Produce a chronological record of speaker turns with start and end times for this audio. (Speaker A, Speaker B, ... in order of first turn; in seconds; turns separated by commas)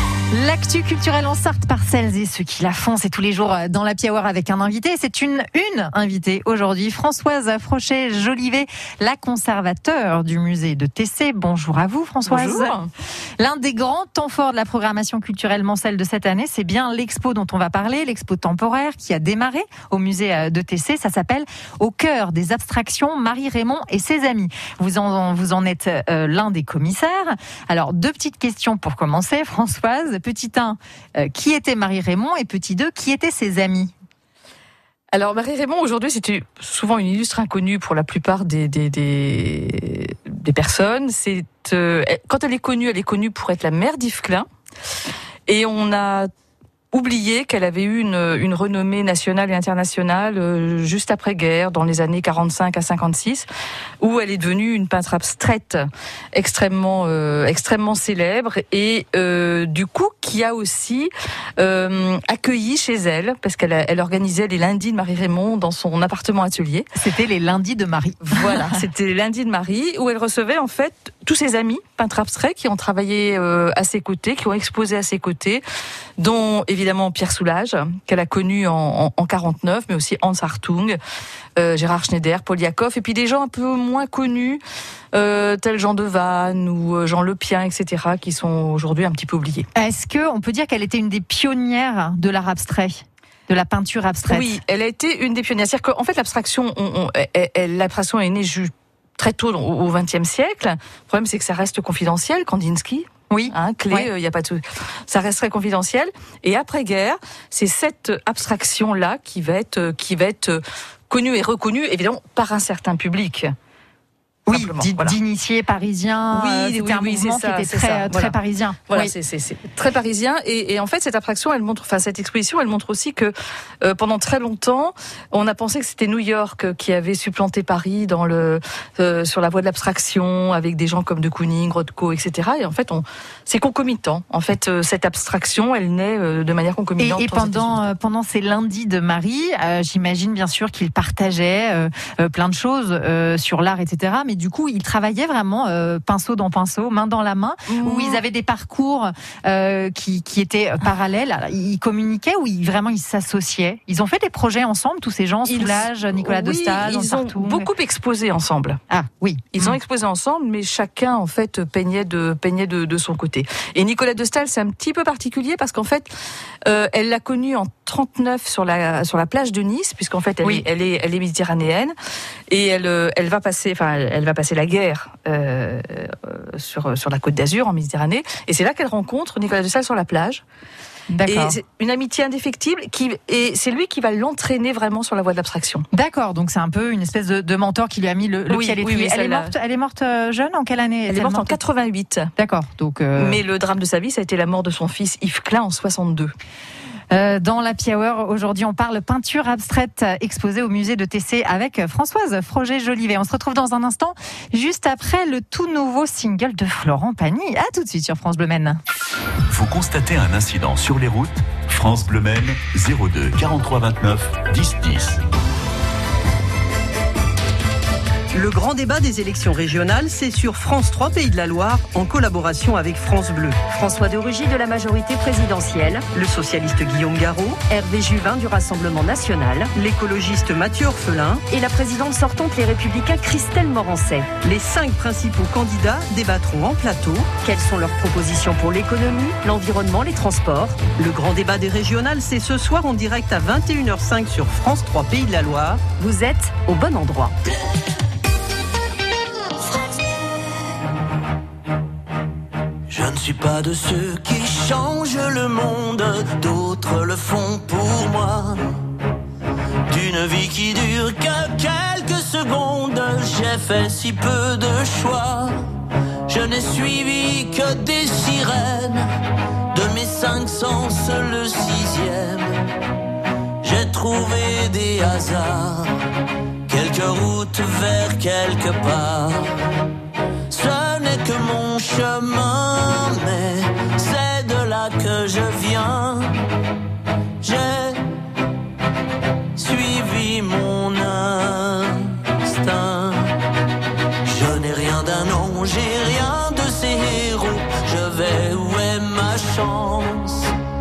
Speaker A: 0.3-12.8, Speaker B: 12.3-12.9, Speaker A: 13.4-33.9, Speaker B: 35.1-44.5, Speaker B: 45.5-46.3, Speaker B: 46.9-53.5, Speaker B: 54.0-66.9, Speaker A: 67.0-68.8, Speaker B: 68.2-75.6, Speaker B: 76.2-81.0, Speaker B: 81.6-84.6, Speaker B: 85.1-89.7, Speaker A: 89.8-94.6, Speaker B: 94.3-113.5, Speaker A: 103.3-104.1, Speaker A: 114.5-119.1, Speaker B: 114.5-115.2, Speaker B: 116.3-118.4, Speaker B: 118.9-137.9, Speaker A: 137.0-157.7, Speaker B: 147.7-148.2, Speaker B: 155.5-158.8, Speaker A: 158.9-159.8, Speaker B: 159.5-166.1, Speaker B: 166.7-171.9, Speaker B: 172.5-180.4, Speaker A: 181.1-181.6, Speaker B: 181.2-185.9, Speaker A: 185.9-191.6, Speaker B: 188.5-189.5, Speaker B: 191.1-192.3, Speaker A: 192.4-193.4, Speaker B: 193.2-196.3, Speaker A: 197.1-208.8, Speaker C: 209.5-215.2, Speaker D: 218.3-223.7, Speaker E: 223.7-226.1, Speaker D: 226.1-227.7, Speaker E: 227.6-229.7, Speaker D: 229.7-231.5, Speaker E: 231.5-234.3, Speaker D: 234.3-237.4, Speaker E: 237.4-240.9, Speaker D: 240.9-245.9, Speaker E: 246.0-247.3, Speaker F: 252.9-258.9, Speaker F: 259.9-265.7, Speaker F: 266.3-269.1, Speaker F: 269.7-272.6, Speaker F: 273.6-276.0, Speaker F: 276.7-279.6, Speaker F: 280.5-286.4, Speaker F: 287.4-288.0, Speaker F: 289.6-293.4, Speaker F: 294.2-300.6